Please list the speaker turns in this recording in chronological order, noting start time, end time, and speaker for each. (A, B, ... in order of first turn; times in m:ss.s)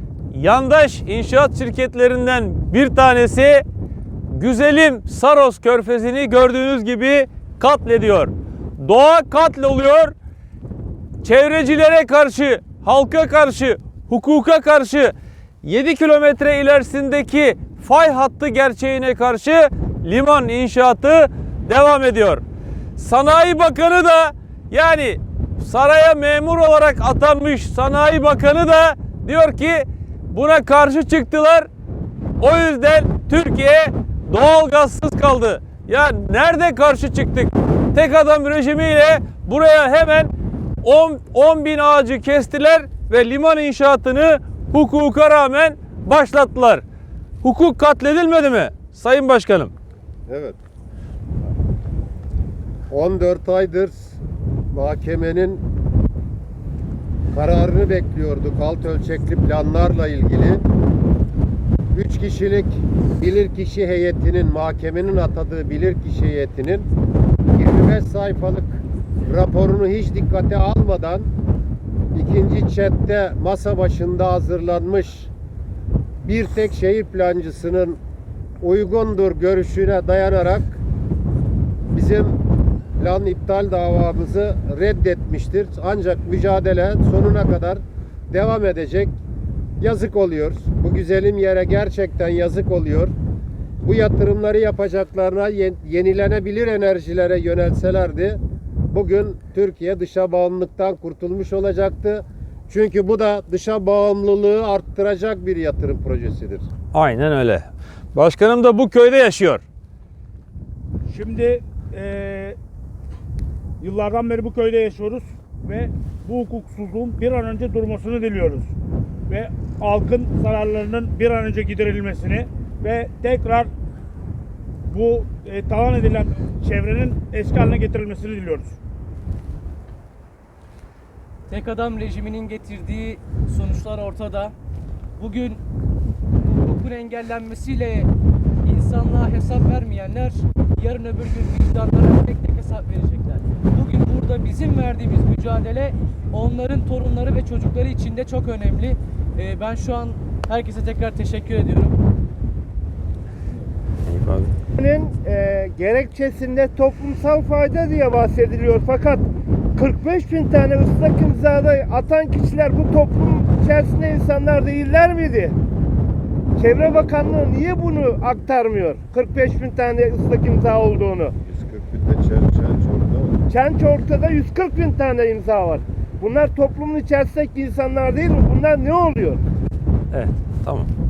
0:00.3-0:03.6 A
0:04.3-0:10.1 A
0:11.2-0:22.4 A
0:23.0-0:31.7 A
0:32.4-0:40.3 A
0:40.8-0:46.8 A
0:47.4-0:49.7 A
0:50.3-0:50.6 B
0:52.9-0:54.2 B
0:54.7-0:55.6 B
0:57.3-1:00.7 B
1:01.9-1:06.9 B
1:07.5-1:11.3 B
1:12.1-1:15.3 B
1:16.2-1:18.0 B
1:18.6-1:20.8 B
1:21.9-1:22.4 B
1:23.0-1:29.1 B
1:29.8-1:33.1 B
1:33.8-1:38.4 B
1:38.9-1:46.7 B
1:46.9-1:49.6 A
1:51.1-1:52.6 C
1:53.8-1:58.7 C
1:59.3-2:03.7 C
2:04.9-2:08.8 C
2:11.5-2:14.5 D
2:15.2-2:15.6 D
2:16.4-2:18.1 D
2:18.6-2:32.0 D
2:34.0-2:34.5 A
2:34.8-2:45.6 E
2:46.6-2:51.3 E
2:51.4-2:53.4 B
2:53.5-2:59.4 E
3:00.1-3:00.9 A